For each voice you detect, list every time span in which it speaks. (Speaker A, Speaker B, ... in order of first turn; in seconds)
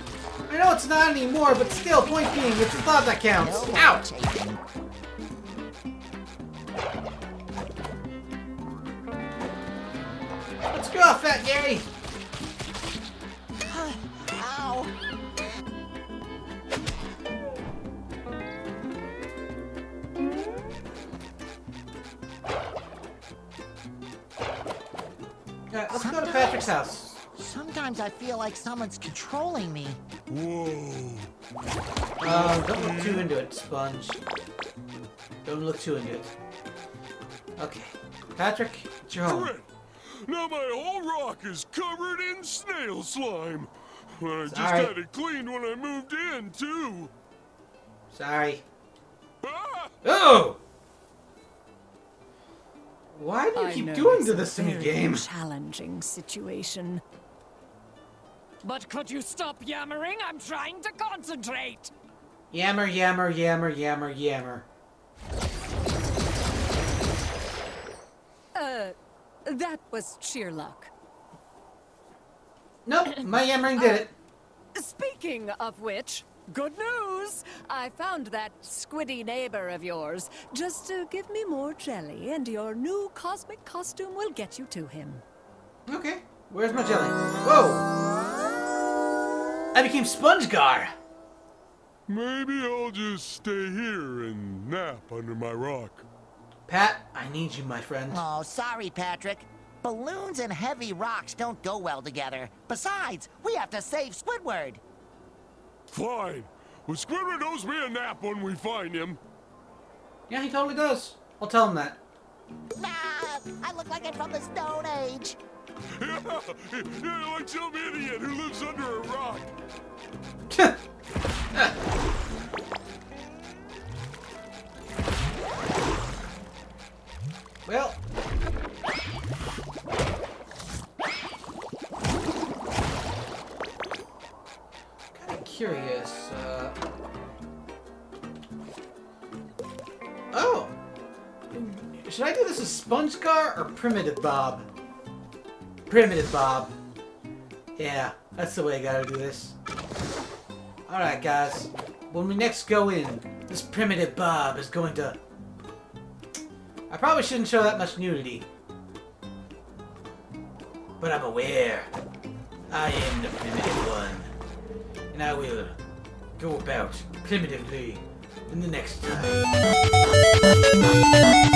Speaker A: 0.5-4.0, 10.7-11.9, 25.7-27.2, 32.2-34.2, 35.5-36.3, 37.6-39.5, 44.5-44.9, 48.1-48.6, 50.0-50.6, 53.1-55.3, 62.5-64.7, 72.8-74.1, 85.9-87.9, 89.7-90.9, 96.7-98.3, 110.3-112.0, 120.5-120.8, 127.7-128.0, 135.1-136.8, 140.3-140.7, 141.5-144.7, 145.9-146.8, 147.8-149.6, 150.9-155.2, 156.9-158.5, 161.0-161.9, 162.7-164.3, 165.1-165.8, 166.4-169.4
Speaker B: 3.4-4.6, 13.6-15.0, 25.9-30.0, 98.1-104.8, 112.8-115.4
Speaker C: 30.3-31.3, 32.2-33.3, 39.2-47.1, 49.4-49.9, 92.1-96.0, 105.9-109.2, 116.0-119.5
Speaker D: 53.5-57.0, 58.6-61.9, 68.5-70.9, 73.1-74.1, 74.8-85.2